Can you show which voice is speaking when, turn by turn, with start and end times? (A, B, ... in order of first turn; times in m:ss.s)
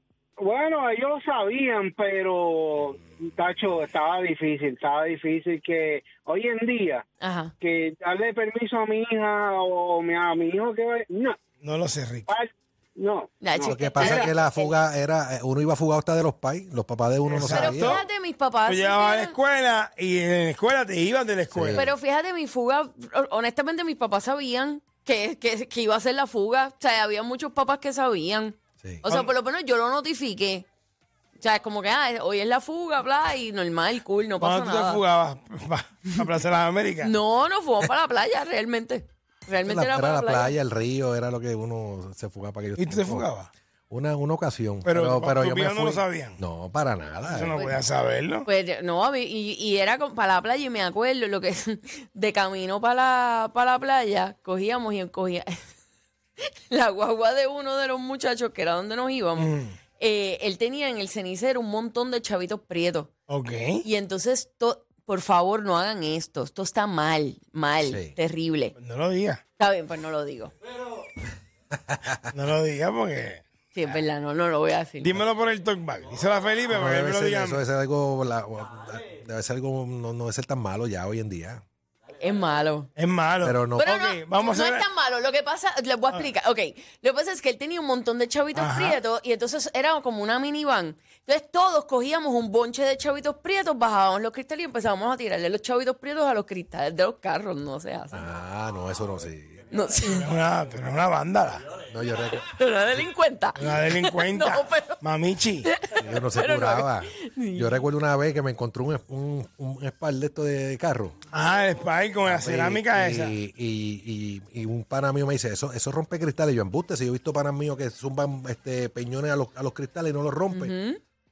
0:00.4-0:07.0 A
0:07.2-0:07.5 B
0:07.6-0:11.4 A
0:11.6-0:12.3 C
0:12.3-0:14.3 A
0:13.4-0:14.7 B
0:13.6-0:18.0 D
0:17.3-0:18.1 C
0:17.5-0:19.4 B
0:18.7-0:21.9 C
0:21.5-0:21.9 D
0:21.7-0:30.7 B
0:31.4-0:35.0 B
0:34.4-0:37.1 C
0:37.0-0:40.6 B
0:39.6-0:43.3 D
0:42.8-0:43.5 C
0:43.9-0:47.6 D
0:44.8-0:46.4 C
0:47.3-0:48.5 C
0:47.5-0:47.8 B
0:48.4-0:55.7 B
0:56.7-1:03.1 B
0:59.4-0:59.7 C
1:03.3-1:03.8 C
1:03.8-1:08.7 B
1:07.8-1:08.2 D
1:08.8-1:09.4 C
1:09.6-1:10.5 B
1:11.9-1:12.2 D
1:12.3-1:14.0 C
1:13.7-1:15.2 B
1:15.0-1:17.6 C
1:16.7-1:21.6 D
1:22.2-1:22.9 B
1:23.0-1:24.8 C
1:23.4-1:23.8 D
1:23.8-1:38.3 B
1:28.6-1:29.0 C
1:38.1-1:39.6 D
1:39.7-1:40.3 B
1:40.2-1:41.7 C
1:41.9-1:42.4 D
1:42.4-1:45.0 B
1:43.6-1:45.7 C
1:45.6-1:47.8 B
1:46.0-1:51.2 D
1:51.3-1:53.4 C
1:52.2-2:00.7 D
2:00.5-2:01.0 B